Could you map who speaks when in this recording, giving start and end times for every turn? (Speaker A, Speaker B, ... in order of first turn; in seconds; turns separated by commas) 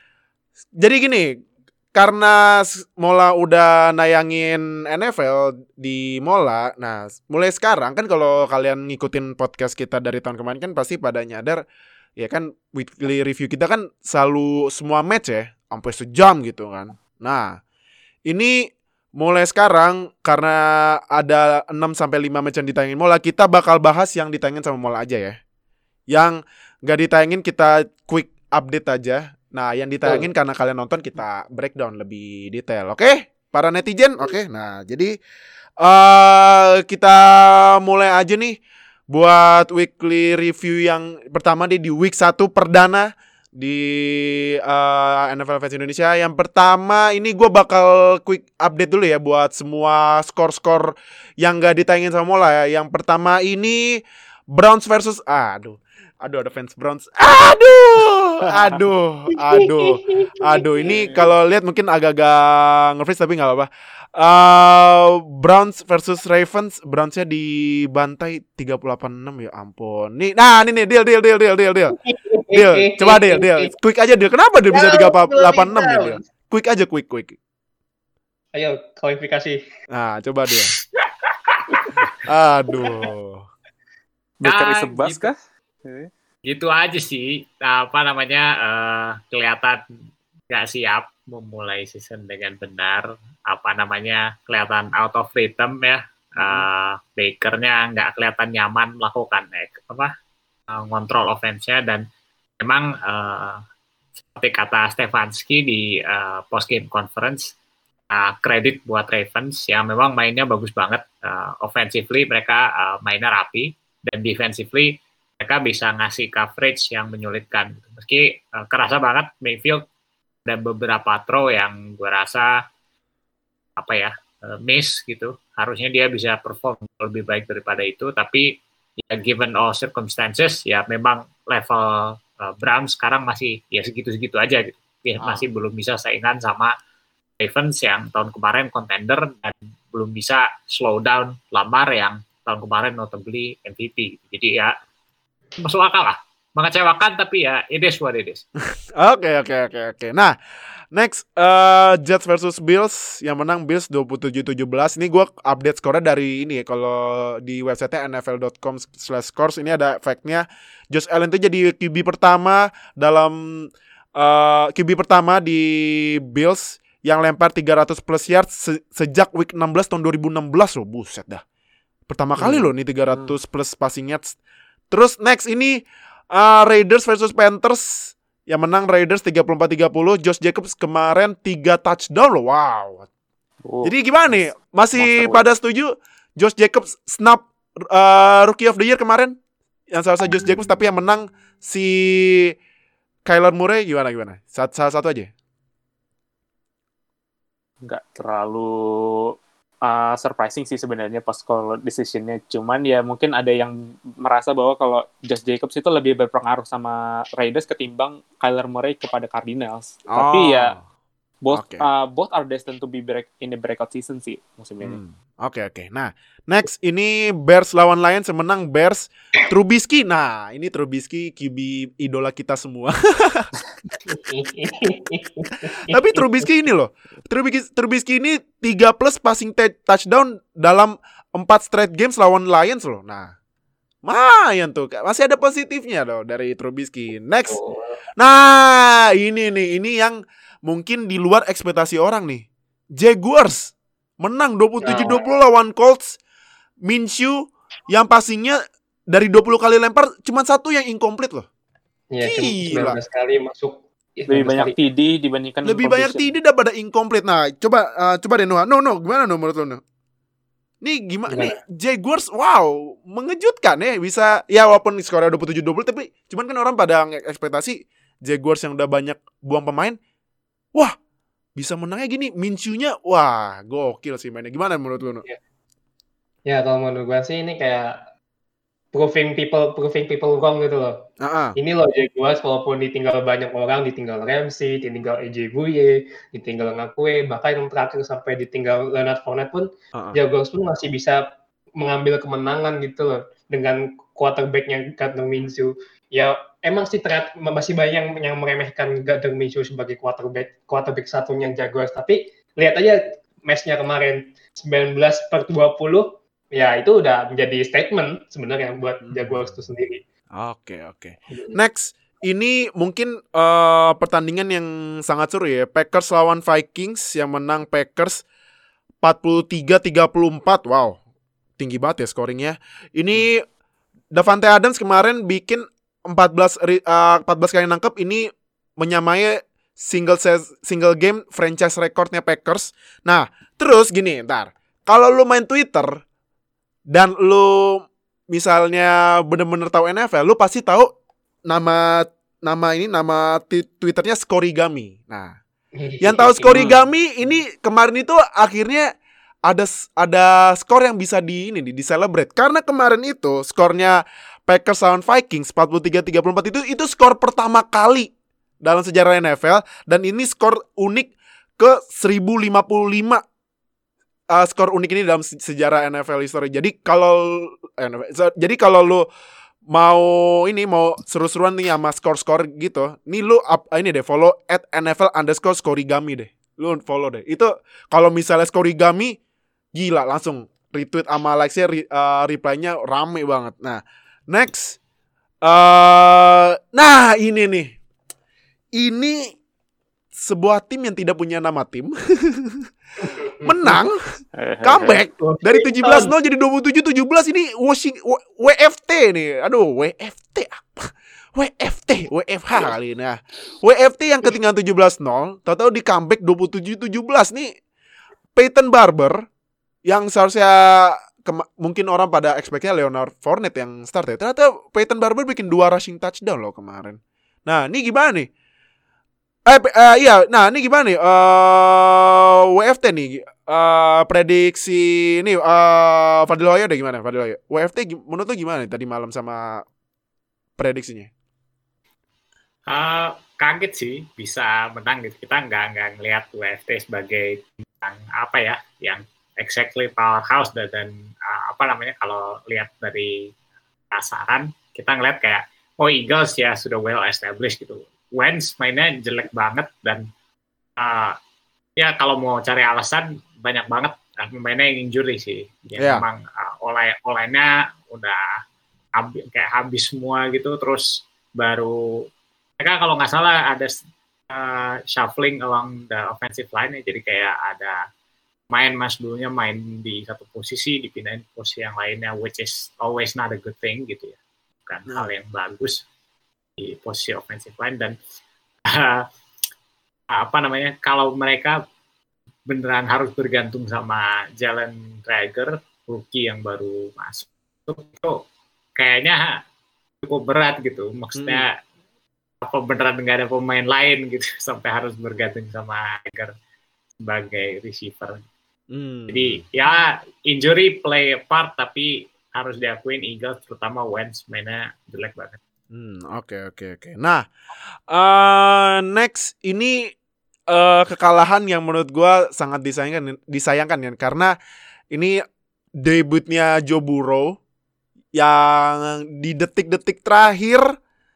Speaker A: 0.8-1.4, Speaker A: 1.9-11.6, Speaker A: 12.2-17.6, Speaker A: 18.3-25.4, Speaker A: 26.1-35.1, Speaker A: 35.8-38.6, Speaker A: 39.1-72.0, Speaker B: 59.5-60.9, Speaker B: 72.0-73.7, Speaker A: 72.5-77.4, Speaker B: 74.7-76.2, Speaker B: 78.5-79.6, Speaker A: 79.9-80.7, Speaker C: 81.5-82.1, Speaker A: 82.2-83.4, Speaker D: 84.4-85.3, Speaker C: 84.4-85.3, Speaker C: 86.5-89.8, Speaker C: 90.5-100.1, Speaker C: 100.7-102.0, Speaker C: 102.6-103.6, Speaker C: 104.3-107.5, Speaker C: 108.1-119.8, Speaker C: 120.5-122.5, Speaker C: 123.8-128.5, Speaker C: 129.1-136.7, Speaker C: 137.4-144.7, Speaker C: 145.6-148.4, Speaker A: 148.9-150.3, Speaker A: 150.9-171.4, Speaker A: 172.1-174.4, Speaker D: 172.4-173.3, Speaker A: 174.9-175.8, Speaker A: 176.3-183.1, Speaker D: 183.7-185.4, Speaker A: 183.8-189.4, Speaker A: 189.9-192.5, Speaker A: 193.2-195.3, Speaker D: 197.8-210.7, Speaker A: 210.1-210.8, Speaker D: 211.4-215.0, Speaker A: 211.5-211.8, Speaker A: 214.8-223.5, Speaker B: 224.0-226.5, Speaker A: 225.8-233.3, Speaker A: 234.0-237.6, Speaker B: 237.5-238.0, Speaker A: 238.2-246.2, Speaker B: 244.8-245.2, Speaker A: 246.8-251.5, Speaker B: 252.1-254.8, Speaker A: 252.2-253.0, Speaker D: 254.3-256.3, Speaker A: 255.6-259.8, Speaker A: 260.8-270.0, Speaker B: 261.3-261.5, Speaker A: 271.6-275.2, Speaker B: 276.5-278.0, Speaker B: 278.9-281.0, Speaker A: 281.2-281.6, Speaker B: 281.6-291.2, Speaker B: 291.8-310.0, Speaker A: 309.0-309.5, Speaker A: 310.4-318.2, Speaker B: 311.3-311.6, Speaker A: 319.0-321.0, Speaker A: 321.6-323.4, Speaker A: 324.1-336.0, Speaker A: 336.9-340.9, Speaker A: 341.5-345.3, Speaker B: 345.8-347.4, Speaker A: 346.0-348.9, Speaker D: 346.5-346.8, Speaker A: 349.5-358.1, Speaker A: 358.6-363.2, Speaker A: 364.3-369.1, Speaker A: 369.7-379.2, Speaker A: 379.8-384.8, Speaker A: 385.4-387.8, Speaker A: 388.8-389.4, Speaker A: 390.1-394.1, Speaker B: 393.0-393.8, Speaker D: 394.4-395.0, Speaker A: 394.6-407.5, Speaker B: 395.2-396.1, Speaker A: 408.4-409.2, Speaker A: 409.9-418.3, Speaker A: 419.5-429.6, Speaker A: 430.6-431.1, Speaker C: 432.7-443.3, Speaker C: 443.9-450.1, Speaker C: 450.8-451.1, Speaker C: 451.8-458.4, Speaker A: 455.8-456.0, Speaker C: 459.0-462.1, Speaker C: 462.6-463.7, Speaker C: 464.3-467.8, Speaker C: 468.5-475.8, Speaker C: 476.6-477.9, Speaker C: 478.7-479.1, Speaker C: 480.1-481.6, Speaker C: 482.5-488.2, Speaker C: 488.8-489.4, Speaker C: 490.0-491.5, Speaker A: 491.1-491.5, Speaker C: 492.4-496.3, Speaker C: 497.0-498.2, Speaker A: 498.7-499.4, Speaker C: 499.1-505.4, Speaker A: 505.7-507.3, Speaker A: 507.9-509.9, Speaker A: 510.5-514.4, Speaker A: 514.9-515.2, Speaker A: 515.8-517.4, Speaker A: 518.1-520.7